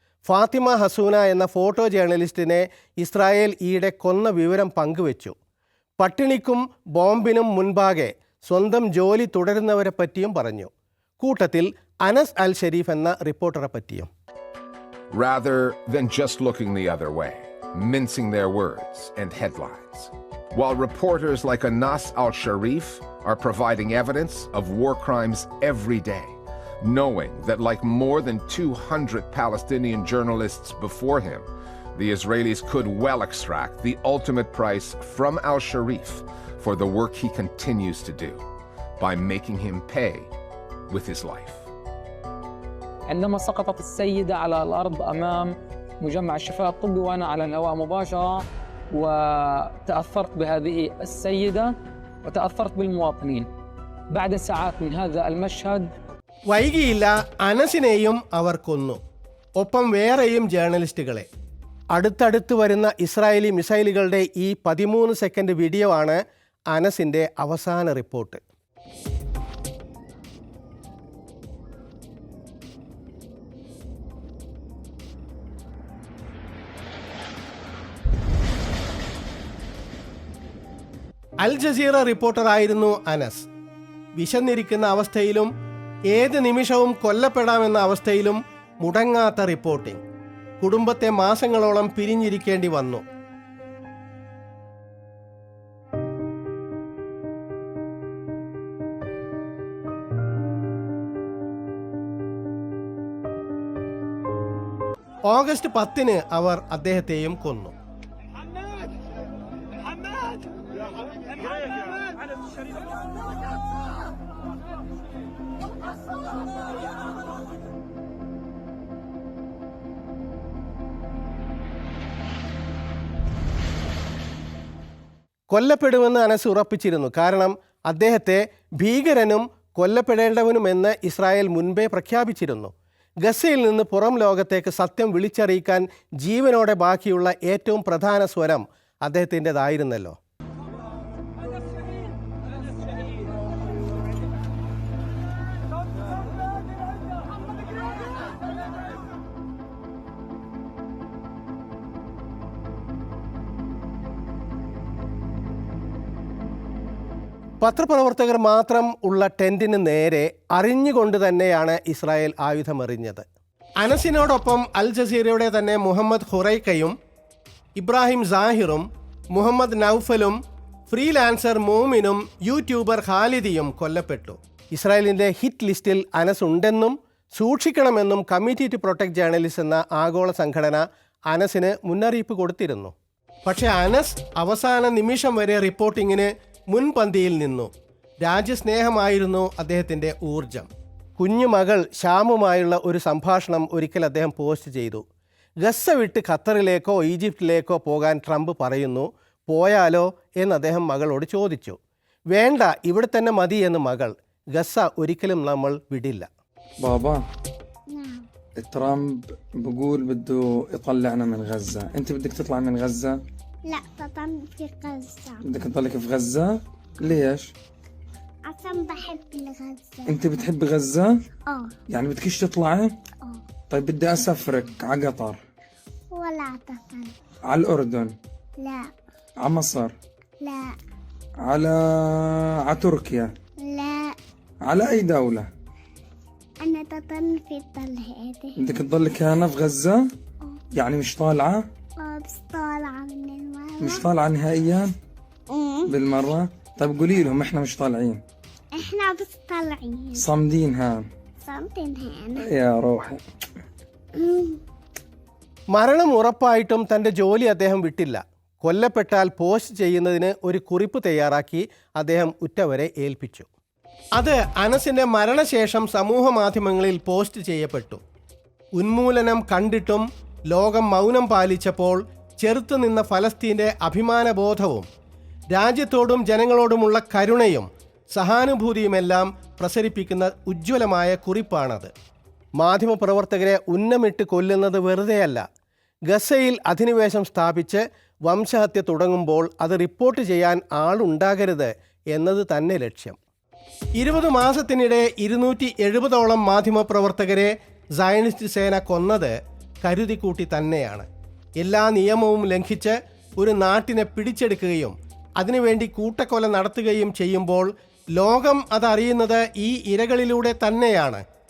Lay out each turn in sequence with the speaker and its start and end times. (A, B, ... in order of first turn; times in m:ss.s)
0:00.3-0:05.4 A
0:06.0-0:14.1 A
0:15.1-0:38.4 B
0:39.0-0:40.3 B
0:40.9-0:41.6 B
0:43.1-0:48.4 C
0:48.9-0:51.7 C
0:52.2-0:53.5 C
0:54.1-0:55.9 C
0:56.5-0:59.0 A
0:59.6-1:01.3 A
1:02.0-1:06.2 A
1:06.7-1:08.4 A
1:21.4-1:23.5 A
1:24.2-1:25.5 A
1:26.1-1:30.0 A
1:30.6-1:33.0 A
1:45.3-1:47.7 A
2:05.5-2:12.7 A
2:13.2-2:20.2 A
2:37.6-2:43.3 A
2:43.8-2:46.9 A
2:47.8-2:50.4 A
2:50.9-3:02.9 A
3:03.4-3:07.7 A
3:08.2-3:15.0 A
3:15.6-3:21.8 A
3:22.3-3:26.3 A
3:26.8-3:27.2 D
3:27.9-3:28.2 E
3:28.6-3:33.1 D
3:33.7-3:35.4 E
3:35.4-3:37.5 D
3:38.4-3:40.1 E
3:40.0-3:41.1 D
3:41.5-3:41.7 E
3:41.9-3:42.9 D
3:43.7-3:45.4 D
3:46.1-3:47.1 E
3:47.5-3:48.1 D
3:48.6-3:48.9 E
3:49.4-3:49.9 D
3:50.4-3:50.7 E
3:51.5-3:53.3 D
3:53.6-3:54.2 E
3:54.7-3:55.5 D
3:56.6-3:58.5 E
3:58.6-4:00.0 D
4:00.8-4:01.6 D
4:02.0-4:04.0 E
4:03.8-4:04.9 D
4:05.5-4:05.8 E
4:05.9-4:08.2 D
4:08.8-4:10.2 E
4:10.2-4:11.0 D
4:11.4-4:12.4 E
4:12.4-4:13.2 D
4:14.2-4:14.6 E
4:15.8-4:23.5 A
4:24.2-4:28.0 A
4:28.8-4:34.9 A
4:35.5-4:41.9 A
4:42.6-4:45.4 A
4:46.1-4:53.2 A
4:54.0-5:01.1 A
5:01.6-5:11.2 A